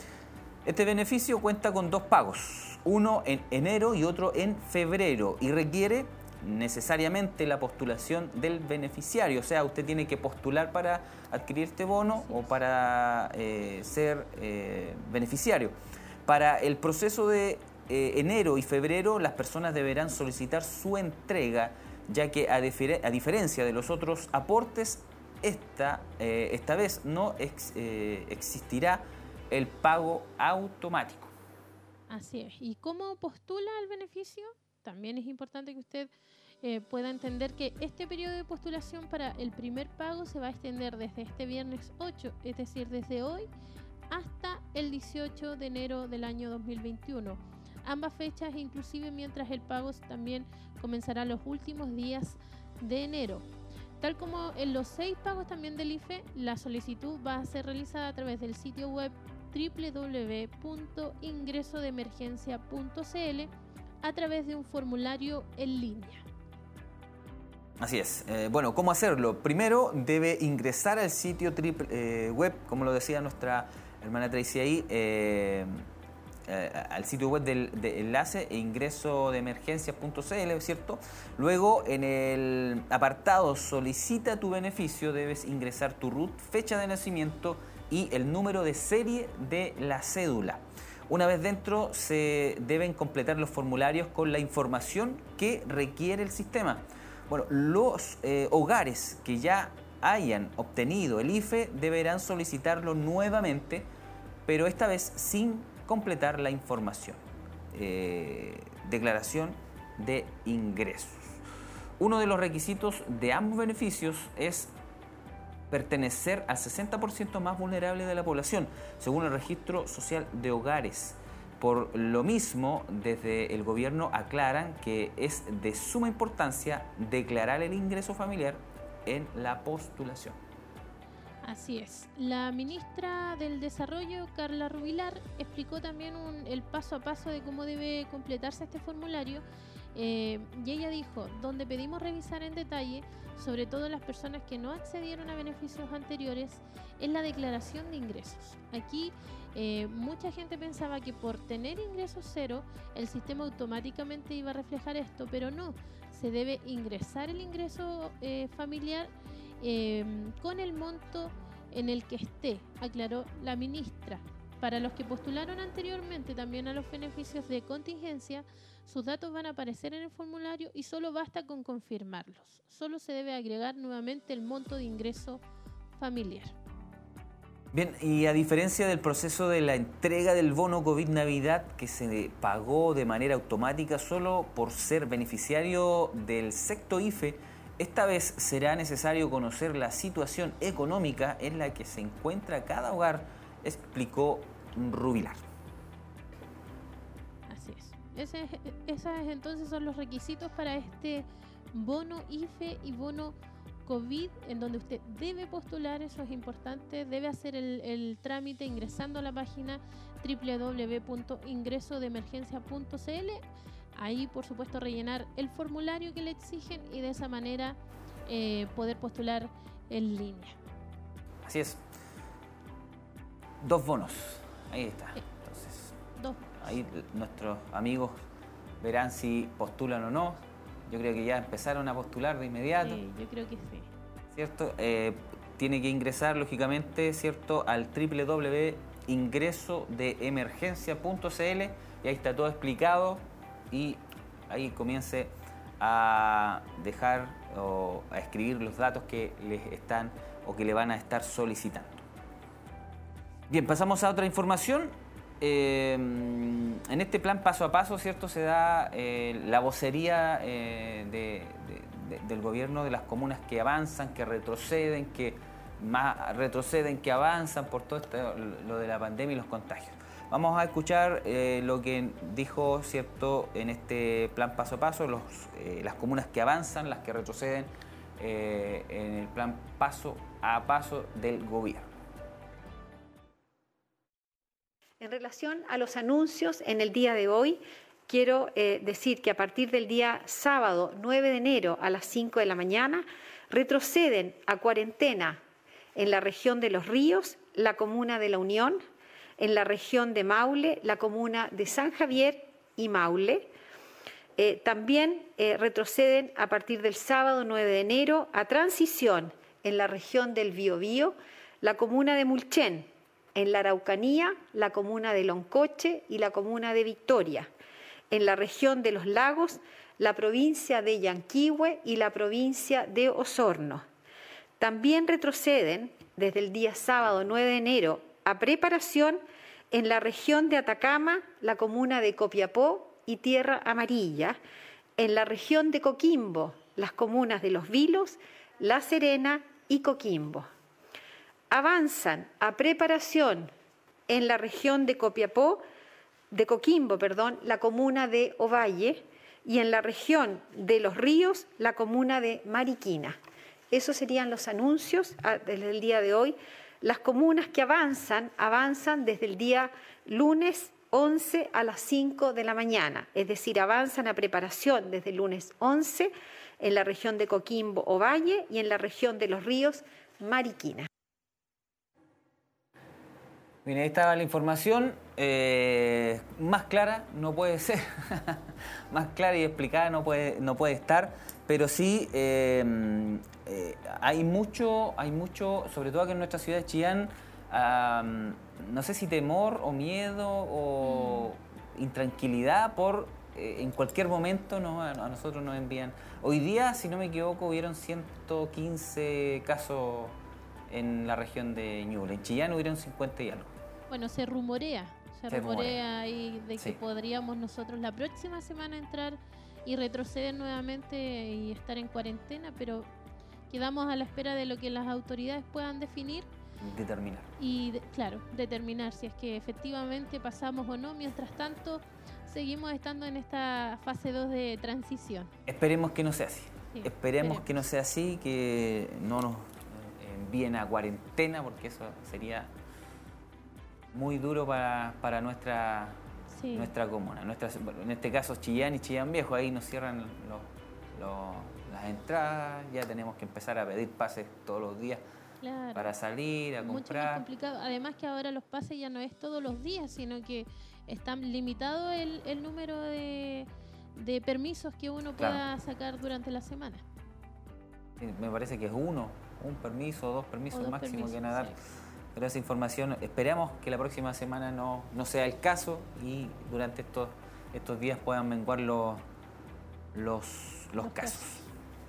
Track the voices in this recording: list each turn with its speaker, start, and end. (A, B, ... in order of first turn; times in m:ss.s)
0:00.6-0:15.8 A
0:16.3-0:31.3 A
0:32.1-0:36.1 B
0:36.6-0:43.5 B
0:44.1-0:53.5 B
0:54.0-1:03.5 B
1:04.0-1:06.2 B
1:07.8-1:15.8 A
1:16.5-1:43.9 A
1:44.5-1:47.2 A
1:47.7-1:51.4 A
1:52.0-1:54.7 A
1:55.7-2:10.4 A
2:11.4-2:19.4 B
2:19.9-2:55.4 B
2:56.0-2:56.6 B
2:57.7-3:15.4 A
3:17.5-3:33.4 B
3:34.0-3:40.6 B
3:41.4-3:41.8 A
3:43.6-3:46.0 A
3:46.2-3:46.6 B
3:46.6-3:48.2 A
3:48.8-3:53.0 A
3:52.8-3:53.9 B
3:54.3-4:12.0 A
4:13.5-4:41.9 A
4:45.0-4:55.4 C
4:56.0-4:58.8 C
4:59.4-5:03.5 C
5:04.4-5:17.5 C
5:18.1-5:23.8 C
5:24.6-5:34.4 C
5:35.0-5:40.5 C
5:41.5-5:43.5 C
5:44.1-5:45.6 C
5:46.3-5:53.2 C
5:53.7-6:10.9 C
6:13.6-6:40.2 A
6:30.8-6:31.3 B
6:40.7-6:43.5 A
6:43.9-6:52.9 B
6:45.3-6:45.8 A
6:53.5-6:56.3 B
6:56.6-6:57.3 A
6:57.4-7:05.3 B
7:05.5-7:12.5 A
7:06.7-7:07.5 B
7:13.9-7:16.0 A
7:16.3-7:16.7 B
7:16.5-7:25.0 A
7:25.4-7:25.9 B
7:25.8-7:27.2 A
7:26.6-7:36.8 B
7:38.0-7:41.6 A
7:40.5-7:41.6 B
7:42.2-7:49.0 A
7:49.9-7:51.4 A
7:50.8-7:51.5 B